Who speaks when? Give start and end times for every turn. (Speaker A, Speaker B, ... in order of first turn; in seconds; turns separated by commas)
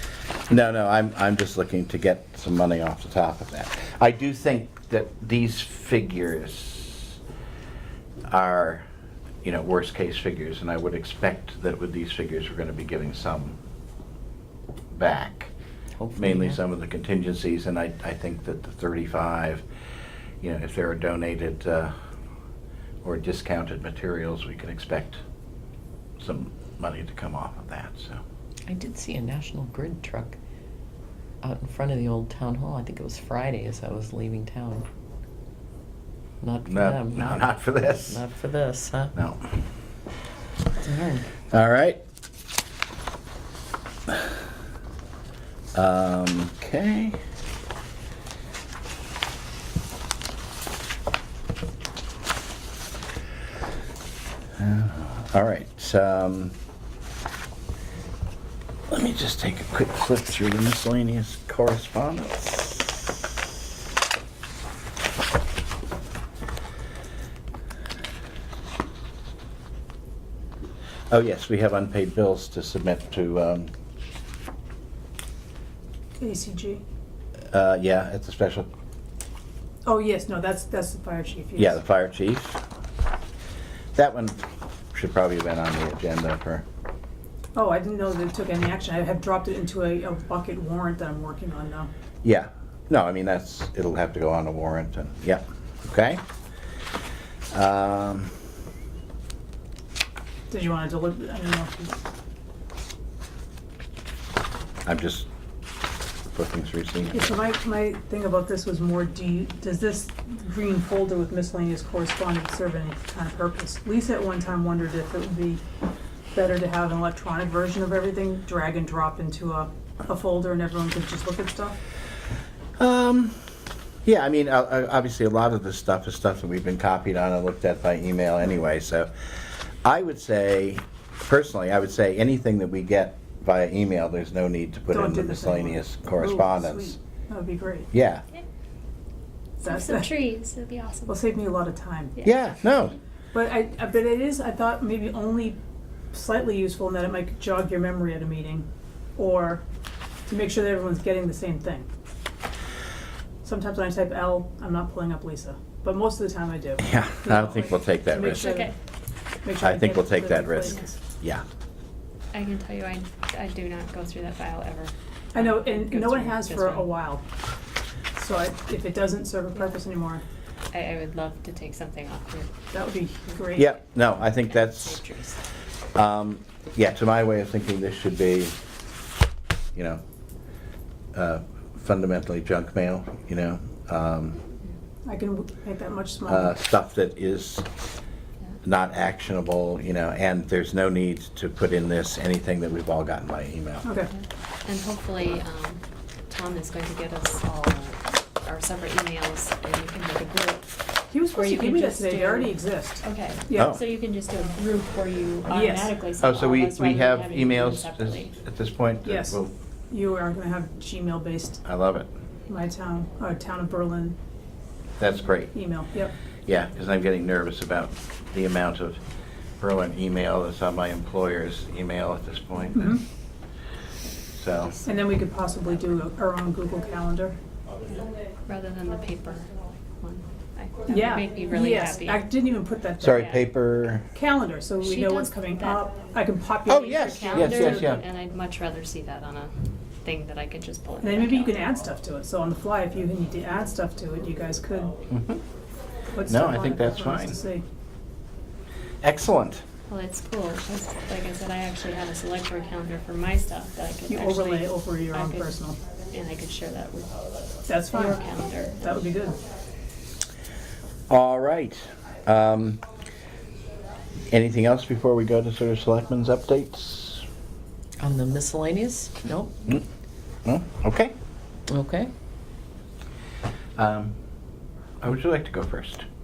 Speaker A: 0.5-7.2, Speaker A: 8.3-8.8, Speaker A: 9.4-13.6, Speaker A: 14.9-15.5, Speaker B: 16.0-16.6, Speaker A: 16.2-19.6, Speaker A: 20.4-21.9, Speaker A: 23.0-25.2, Speaker A: 26.2-28.2, Speaker B: 28.7-30.4, Speaker B: 31.4-34.9, Speaker B: 36.4-39.1, Speaker A: 36.6-38.2, Speaker A: 39.1-39.5, Speaker B: 40.8-41.3, Speaker A: 41.5-42.0, Speaker A: 45.7-47.2, Speaker A: 54.6-56.5, Speaker A: 58.9-63.0, Speaker A: 71.1-73.7, Speaker C: 76.2-76.8, Speaker A: 77.5-78.7, Speaker C: 79.9-81.8, Speaker A: 81.6-82.6, Speaker A: 84.0-84.4, Speaker A: 84.9-86.7, Speaker C: 87.5-91.9, Speaker A: 92.2-96.2, Speaker A: 97.5-98.3, Speaker C: 100.5-102.0, Speaker A: 104.9-105.3, Speaker A: 106.3-107.3, Speaker C: 107.1-115.6, Speaker C: 116.3-121.8, Speaker A: 122.8-123.5, Speaker A: 124.0-129.1, Speaker A: 129.8-137.0, Speaker C: 134.9-137.9, Speaker A: 137.9-138.2, Speaker D: 139.6-141.2, Speaker C: 139.6-140.1, Speaker C: 141.1-142.2, Speaker D: 142.2-142.4, Speaker A: 142.2-143.0, Speaker C: 143.3-145.6, Speaker C: 146.1-149.6, Speaker C: 150.3-151.9, Speaker C: 153.4-158.7, Speaker A: 156.8-158.6, Speaker D: 158.1-158.7, Speaker C: 159.4-160.9, Speaker A: 159.6-161.4, Speaker D: 162.3-166.9, Speaker C: 165.3-167.2, Speaker C: 168.2-170.2, Speaker D: 170.7-172.5, Speaker C: 172.7-173.7, Speaker A: 173.6-175.0, Speaker D: 174.1-175.4, Speaker A: 175.9-178.6, Speaker A: 179.8-180.0, Speaker A: 181.1-184.4, Speaker C: 185.1-186.5, Speaker A: 186.3-187.7, Speaker A: 188.6-193.8, Speaker C: 193.8-194.1, Speaker D: 194.1-200.8, Speaker C: 201.1-203.7, Speaker D: 201.3-208.3, Speaker C: 205.5-205.9, Speaker A: 206.2-209.5, Speaker C: 209.1-211.6, Speaker A: 211.6-212.1, Speaker C: 212.5-214.2, Speaker A: 215.0-215.6, Speaker C: 215.5-216.1, Speaker A: 216.5-219.0, Speaker A: 219.6-223.0, Speaker C: 222.7-223.0, Speaker A: 224.4-224.8, Speaker D: 224.6-225.2, Speaker C: 224.8-227.4, Speaker D: 227.9-232.3, Speaker C: 230.9-233.3, Speaker A: 233.0-234.1, Speaker D: 233.1-233.4, Speaker C: 234.1-238.0, Speaker D: 234.8-235.9, Speaker A: 236.7-238.0, Speaker D: 236.8-241.8, Speaker C: 241.0-245.0, Speaker A: 245.1-245.4, Speaker C: 246.1-247.7, Speaker A: 246.3-247.4, Speaker A: 249.0-249.6, Speaker D: 249.9-259.1, Speaker C: 254.1-255.8, Speaker C: 257.7-258.3, Speaker C: 258.8-259.4, Speaker A: 261.1-262.8, Speaker A: 264.3-267.2, Speaker B: 268.0-269.5, Speaker A: 270.4-271.1, Speaker B: 271.7-272.1, Speaker A: 273.8-274.2, Speaker A: 275.0-276.1